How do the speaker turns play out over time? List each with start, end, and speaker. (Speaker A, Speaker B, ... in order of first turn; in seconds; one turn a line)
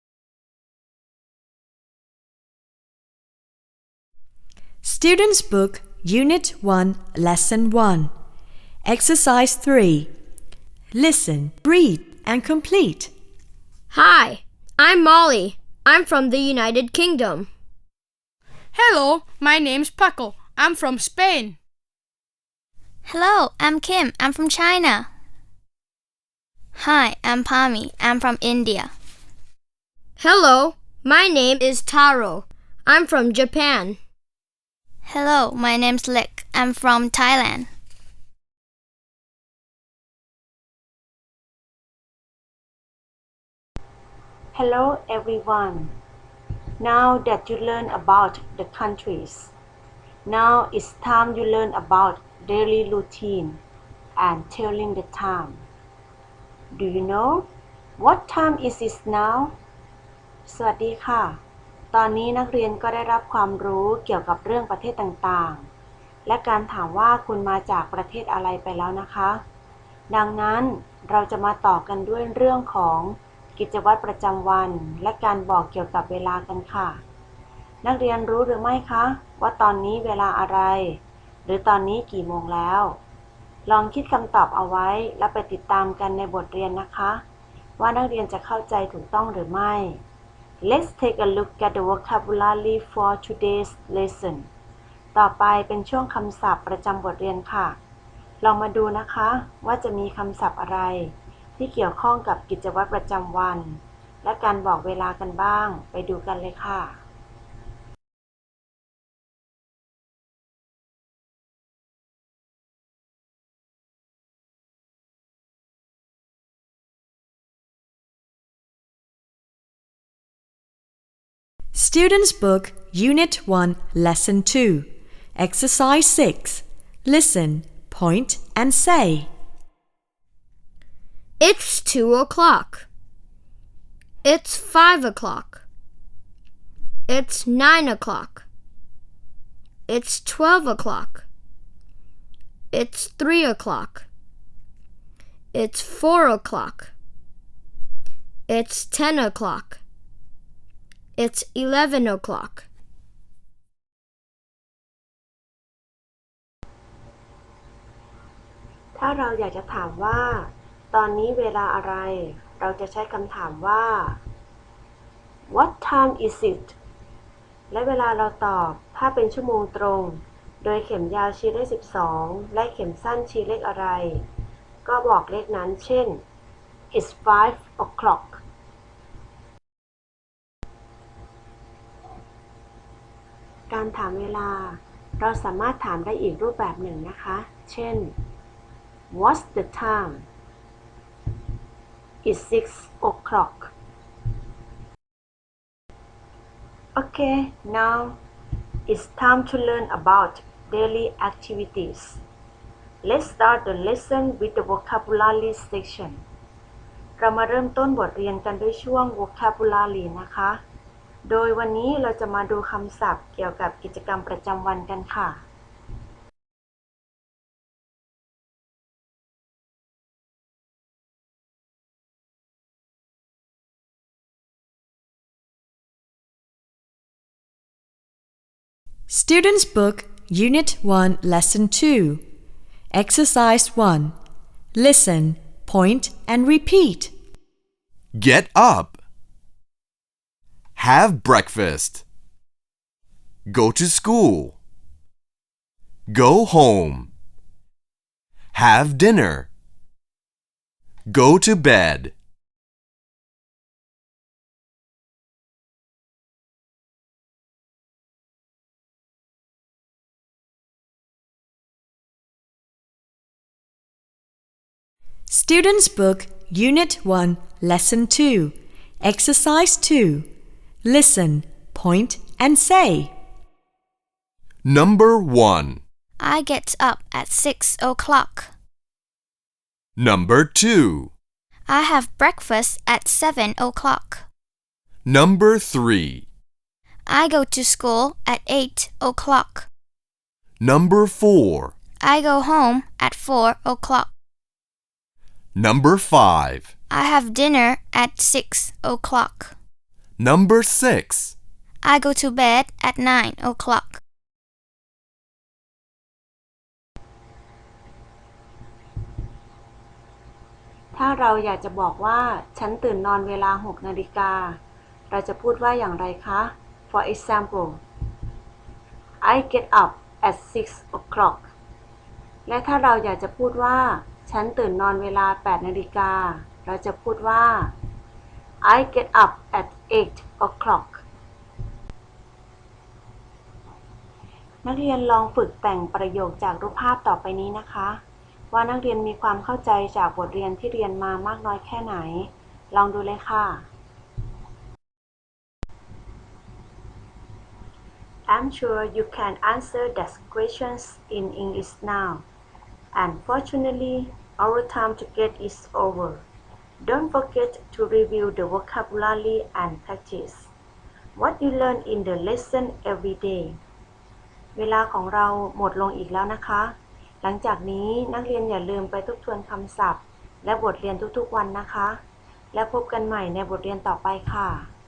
Speaker A: 4.8-8.1
Speaker A: 8.8-10.1
Speaker A: 10.9-13.1
Speaker B: 13.9-17.5
Speaker C: 18.7-21.6
Speaker D: 23.1-25.1
Speaker D: 26.8-28.9
Speaker B: 30.2-34.0
Speaker D: 35.1-37.7
Speaker E: 44.5-45.9
Speaker E: 46.8-49.5
Speaker E: 50.2-53.6
Speaker E: 54.2-55.6
Speaker E: 56.7-57.5
Speaker E: 58.0-59.5
Speaker E: 60.5-61.4
Speaker E: 61.9-65.7
Speaker E: 66.2-69.4
Speaker E: 70.1-77.0
Speaker E: 77.8-83.0
Speaker E: 83.7-87.2
Speaker E: 87.8-90.0
Speaker E: 90.6-94.5
Speaker E: 95.1-97.8
Speaker E: 98.4-107.0
Speaker A: 121.7-129.3
Speaker B: 131.4-132.9
Speaker B: 134.2-135.6
Speaker B: 137.1-138.5
Speaker B: 139.9-141.3
Speaker B: 142.7-144.1
Speaker B: 145.5-146.9
Speaker B: 148.5-149.8
Speaker B: 151.2-152.7
Speaker E: 158.9-164.2
Speaker E: 165.5-166.8
Speaker E: 167.7-174.2
Speaker E: 174.8-176.2
Speaker E: 176.9-178.4
Speaker E: 183.7-188.2
Speaker E: 189.1-190.3
Speaker E: 192.2-193.7
Speaker E: 196.9-198.2
Speaker E: 198.9-202.2
Speaker E: 203.0-206.2
Speaker E: 207.2-210.6
Speaker E: 211.2-215.4
Speaker A: 229.1-232.2
Speaker A: 232.9-234.2
Speaker A: 234.8-237.1
Speaker F: 238.2-239.0
Speaker F: 240.8-242.0
Speaker F: 243.5-244.6
Speaker F: 246.1-247.1
Speaker F: 248.5-249.5
Speaker F: 251.1-252.1
Speaker A: 265.3-270.3
Speaker A: 270.8-273.1
Speaker F: 274.6-275.8
Speaker D: 276.2-278.5
Speaker F: 280.0-281.1
Speaker D: 281.7-284.3
Speaker F: 285.1-286.2
Speaker D: 287.1-289.7
Speaker F: 290.6-291.8
Speaker D: 292.0-294.1
Speaker F: 295.6-296.7
Speaker D: 296.9-299.5
Speaker F: 300.2-301.4
Speaker D: 301.8-304.0
Speaker E: 310.9-314.6
Speaker E: 315.1-317.8
Speaker E: 319.2-321.5
Speaker E: 322.5-327.7
Speaker E: 328.6-331.0
Speaker E: 334.6-338.0
Speaker E: 338.5-343.7
Speaker E: 348.3-352.2
Speaker E: 352.9-356.2
Speaker E: 356.8-360.5
Speaker E: 361.2-363.6
Speaker E: 364.6-372.0
Speaker E: 372.5-374.7